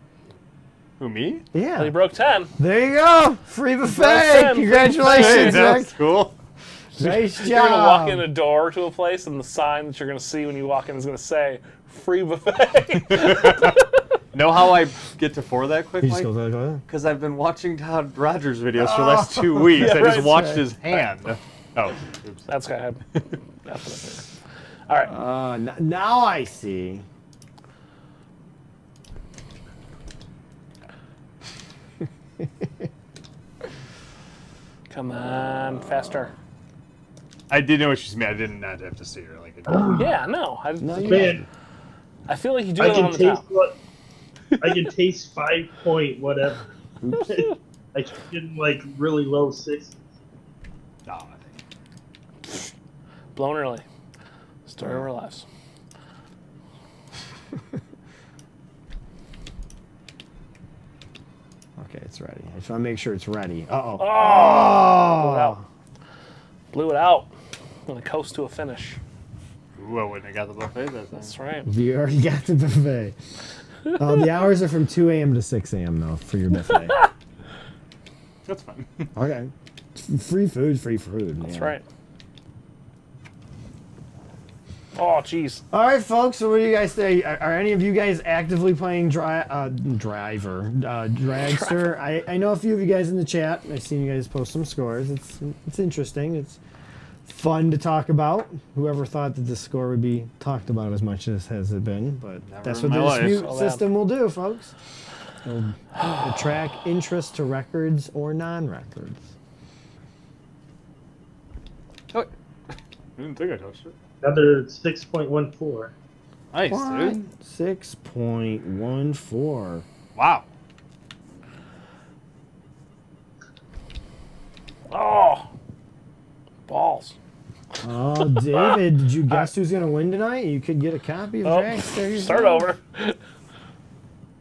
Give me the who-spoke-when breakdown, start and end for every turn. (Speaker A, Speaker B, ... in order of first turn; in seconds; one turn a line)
Speaker A: 1.0-1.4
Speaker B: 1.5-1.9
Speaker C: 1.8-2.5
Speaker B: 2.6-6.0
Speaker C: 3.9-5.8
Speaker A: 5.0-6.3
Speaker B: 7.0-8.3
Speaker C: 7.0-13.8
Speaker A: 12.9-13.7
Speaker A: 14.3-16.3
Speaker B: 16.0-16.8
Speaker A: 16.9-22.5
Speaker B: 18.7-20.8
Speaker C: 19.8-20.5
Speaker C: 22.5-23.0
Speaker C: 23.6-24.2
Speaker B: 25.1-27.1
Speaker C: 34.9-36.3
Speaker A: 37.5-40.0
Speaker D: 39.7-40.1
Speaker C: 39.9-41.4
Speaker B: 40.8-41.5
Speaker D: 41.1-41.4
Speaker C: 42.3-43.4
Speaker D: 42.8-43.7
Speaker D: 44.6-46.7
Speaker B: 47.0-47.4
Speaker C: 47.1-47.5
Speaker D: 47.3-50.0
Speaker A: 51.0-51.5
Speaker C: 53.3-53.8
Speaker C: 54.6-55.5
Speaker B: 54.8-55.0
Speaker B: 61.8-65.7
Speaker C: 64.0-65.6
Speaker C: 66.7-67.3
Speaker C: 67.9-69.0
Speaker A: 69.8-71.3
Speaker C: 71.2-71.7
Speaker B: 71.6-73.2
Speaker B: 73.9-77.0
Speaker A: 78.5-79.1
Speaker B: 79.1-81.8
Speaker C: 81.4-81.8
Speaker C: 85.0-85.6
Speaker B: 85.7-96.6
Speaker C: 91.5-91.9
Speaker B: 97.2-104.8
Speaker A: 102.4-103.5
Speaker C: 103.1-103.8
Speaker B: 105.4-109.3
Speaker A: 112.1-113.9
Speaker D: 114.2-115.9
Speaker A: 116.5-117.2
Speaker B: 116.6-119.8
Speaker A: 120.1-120.5
Speaker C: 124.9-125.5
Speaker C: 126.7-127.1
Speaker B: 127.8-132.7
Speaker C: 131.4-133.2